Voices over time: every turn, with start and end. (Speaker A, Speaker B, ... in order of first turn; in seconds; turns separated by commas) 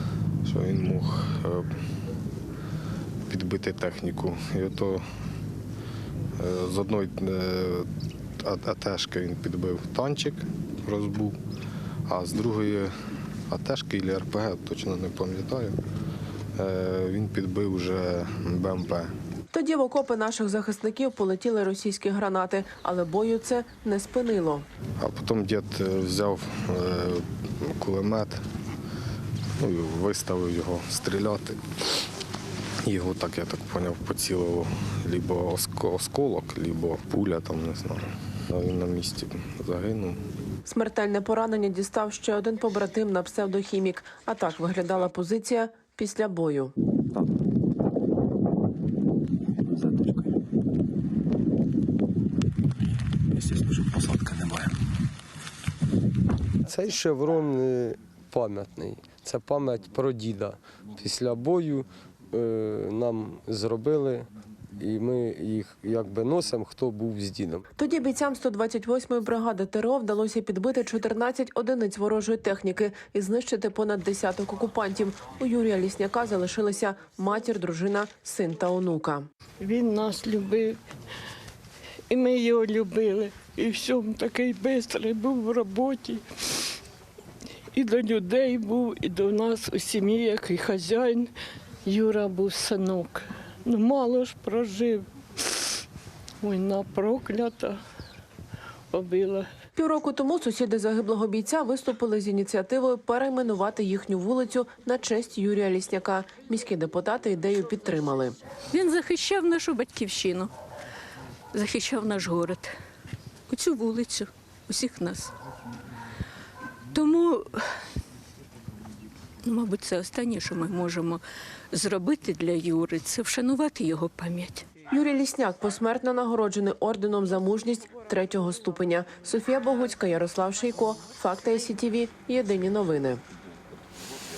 Speaker A: 0.4-1.7, Speaker A: 3.3-5.0, Speaker A: 6.4-7.9, Speaker A: 8.4-11.3, Speaker A: 12.1-12.9, Speaker A: 13.5-15.8, Speaker A: 16.6-19.1, Speaker B: 19.5-24.6, Speaker A: 25.0-28.4, Speaker A: 29.6-31.7, Speaker A: 32.8-40.2, Speaker B: 40.6-46.7, Speaker C: 56.6-67.7, Speaker B: 67.8-79.3, Speaker D: 79.6-80.8, Speaker D: 82.1-86.2, Speaker D: 87.7-91.3, Speaker D: 91.8-95.0, Speaker D: 96.4-97.8, Speaker D: 98.9-99.5, Speaker B: 99.8-108.3, Speaker E: 108.8-110.5, Speaker E: 111.6-112.6, Speaker E: 113.5-114.2, Speaker E: 114.7-115.3, Speaker E: 117.0-117.3, Speaker E: 119.5-121.1, Speaker E: 121.8-124.6, Speaker B: 124.9-133.2